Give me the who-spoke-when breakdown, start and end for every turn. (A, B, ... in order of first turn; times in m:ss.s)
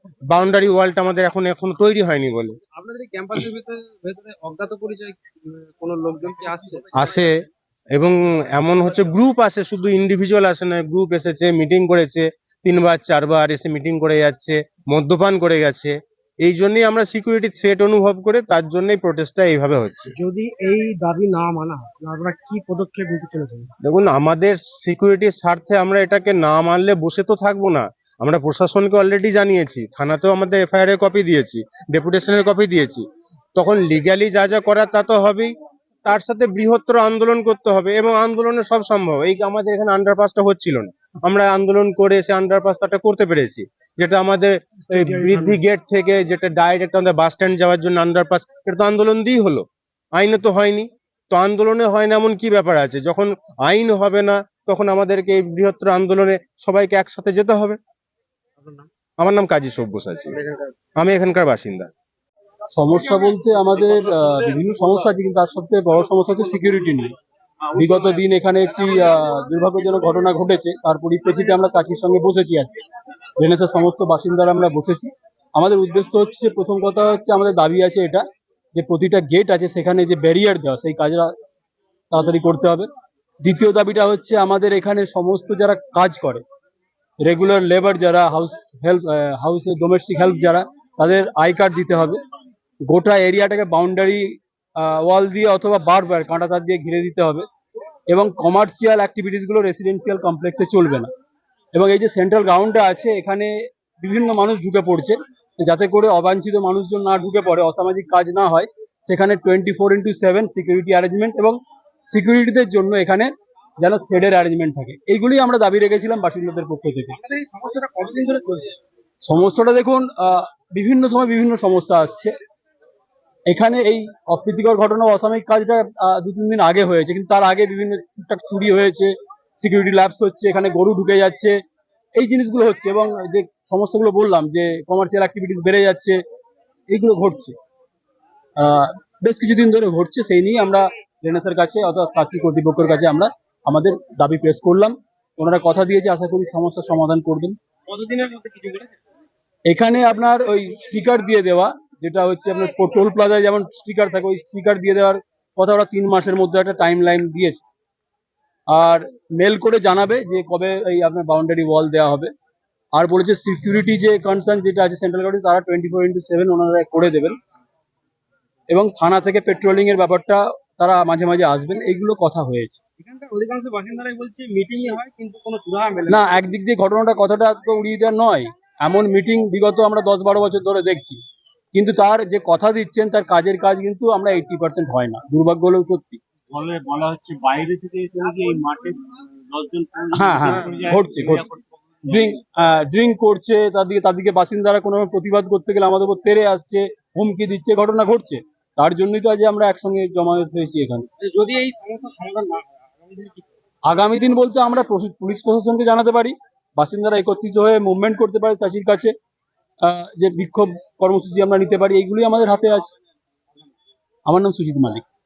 0:00.3-0:02.6 A
0:02.7-0:07.0 B
0:06.9-0:07.3 A
0:07.9-0:20.1 A
0:20.1-0:23.7 C
0:23.8-0:35.5 A
0:36.0-0:49.6 A
0:44.9-0:45.6 C
0:50.2-0:57.8 A
0:59.2-1:00.4 A
1:01.0-1:01.9 A
1:02.7-1:07.2 D
1:07.7-1:12.8 D
1:13.4-1:18.2 D
1:18.7-1:21.3 D
1:22.1-1:22.9 D
1:23.4-1:26.4 D
1:27.2-1:32.2 D
1:32.9-1:37.5 D
1:38.1-1:41.1 D
1:41.7-1:57.2 D
1:57.2-1:58.7 B
1:59.2-2:02.3 D
2:03.5-2:11.6 D
2:12.2-2:16.2 D
2:16.9-2:17.6 D
2:18.6-2:27.6 D
2:27.9-2:28.9 B
2:29.7-2:37.6 D
2:38.7-2:42.3 D
2:43.0-2:47.4 D
2:48.7-2:52.8 D
2:53.0-2:56.5 B
2:56.1-3:01.2 D
3:01.7-3:06.2 D
3:06.5-3:11.6 E
3:10.1-3:11.4 D
3:12.1-3:21.1 D
3:21.2-3:23.4 B
3:23.8-3:29.1 D
3:29.8-3:32.9 D
3:34.2-3:35.0 D